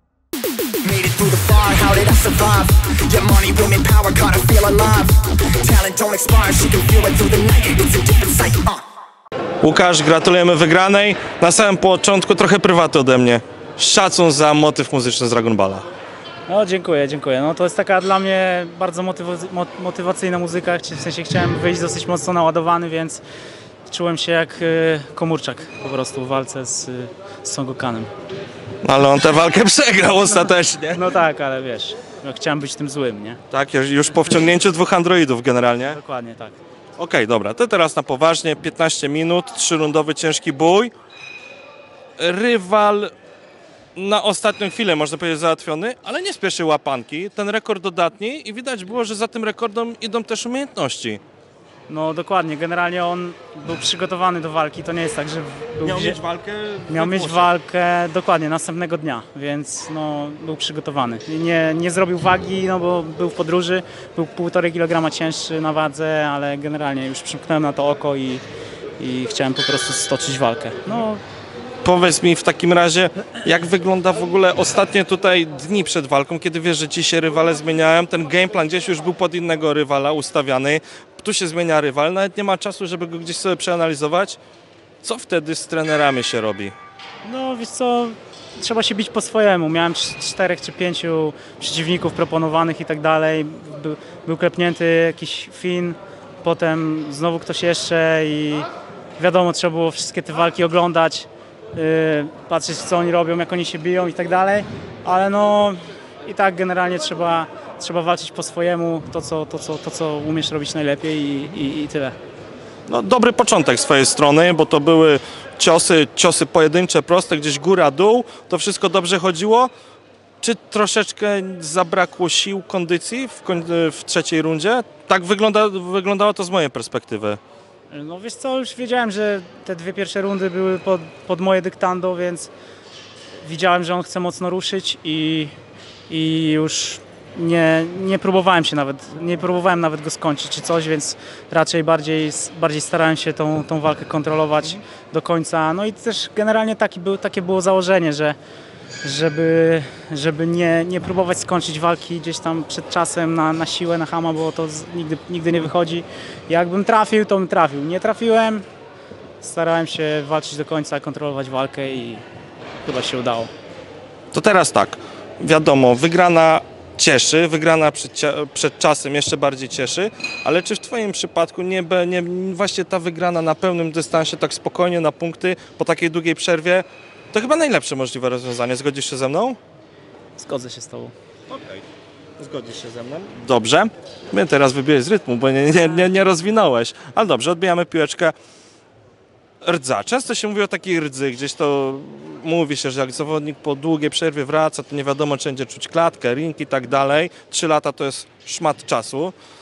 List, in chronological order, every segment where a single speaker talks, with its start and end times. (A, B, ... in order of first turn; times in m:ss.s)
0:00.8-0:08.8 A
0:09.6-0:15.8 B
0:16.5-0:23.2 C
0:23.8-0:28.1 C
0:28.8-0:31.1 B
0:30.9-0:33.4 C
0:33.5-0:36.0 B
0:35.8-0:36.6 C
0:37.0-0:40.9 B
0:42.2-0:43.1 B
0:44.0-0:51.2 B
0:51.9-0:56.2 C
0:55.8-0:57.5 B
0:56.9-1:08.4 C
1:09.0-1:11.2 C
1:11.8-1:24.4 B
1:25.0-1:26.7 B
1:27.2-1:38.6 C
1:39.2-1:52.2 C
1:52.9-1:59.7 B
2:00.4-2:07.4 B
2:07.9-2:12.5 C
2:13.4-2:15.5 C
2:16.1-2:28.4 C
2:29.0-2:38.6 C
2:39.4-2:42.2 C
2:42.8-2:43.5 C
2:44.3-2:59.6 B
3:00.4-3:01.1 C
3:01.5-3:01.8 B
3:02.4-3:08.3 B
3:09.6-3:19.3 B